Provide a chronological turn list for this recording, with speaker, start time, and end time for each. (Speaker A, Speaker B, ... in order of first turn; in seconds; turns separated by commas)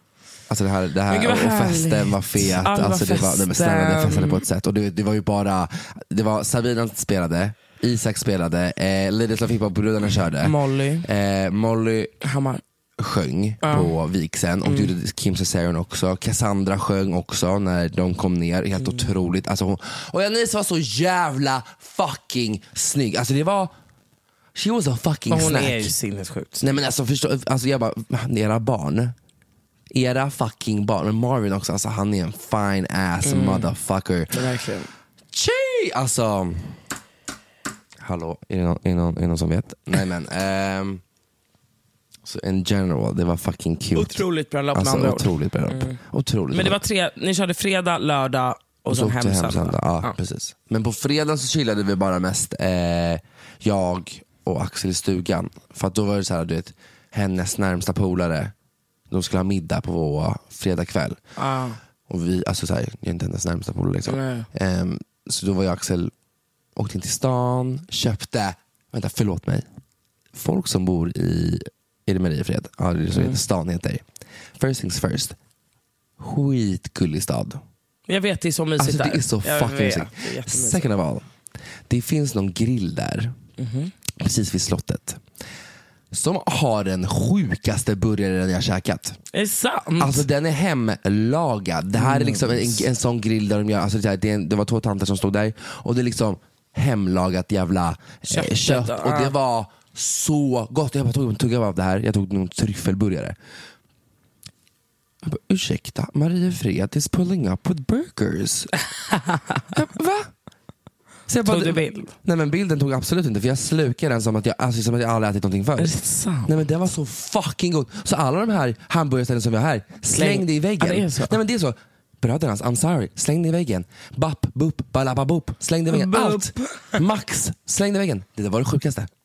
Speaker A: 0.5-12.1, Speaker B: 1.1-4.4, Speaker B: 10.4-11.1, Speaker B: 12.2-12.6, Speaker A: 13.0-23.7, Speaker B: 13.6-13.9, Speaker B: 14.6-14.9, Speaker B: 18.8-19.1, Speaker A: 24.5-25.9, Speaker B: 25.3-26.7, Speaker A: 26.6-29.1, Speaker A: 29.9-34.4, Speaker B: 33.2-33.7, Speaker B: 34.3-34.9, Speaker A: 35.3-36.8, Speaker A: 38.0-41.0, Speaker A: 42.2-46.8, Speaker B: 43.9-46.0, Speaker B: 46.5-50.1, Speaker A: 48.9-58.5, Speaker A: 59.1-61.2, Speaker B: 61.4-61.8, Speaker A: 62.1-66.1, Speaker B: 64.1-64.5, Speaker A: 66.8-69.7, Speaker A: 70.3-74.0, Speaker B: 73.1-73.4, Speaker A: 74.6-75.3, Speaker A: 76.2-77.6, Speaker B: 78.1-80.8, Speaker A: 78.8-81.2, Speaker A: 81.9-83.3, Speaker B: 83.6-83.9, Speaker A: 84.2-85.2, Speaker A: 86.1-89.2, Speaker B: 89.3-90.3, Speaker A: 90.0-103.3, Speaker B: 92.0-92.9, Speaker B: 98.3-99.3, Speaker A: 105.2-108.7, Speaker B: 109.1-109.6, Speaker A: 109.7-110.3, Speaker A: 111.3-115.9, Speaker B: 111.4-112.1, Speaker B: 115.8-116.5, Speaker A: 116.5-129.1, Speaker B: 120.1-121.4, Speaker B: 125.9-127.0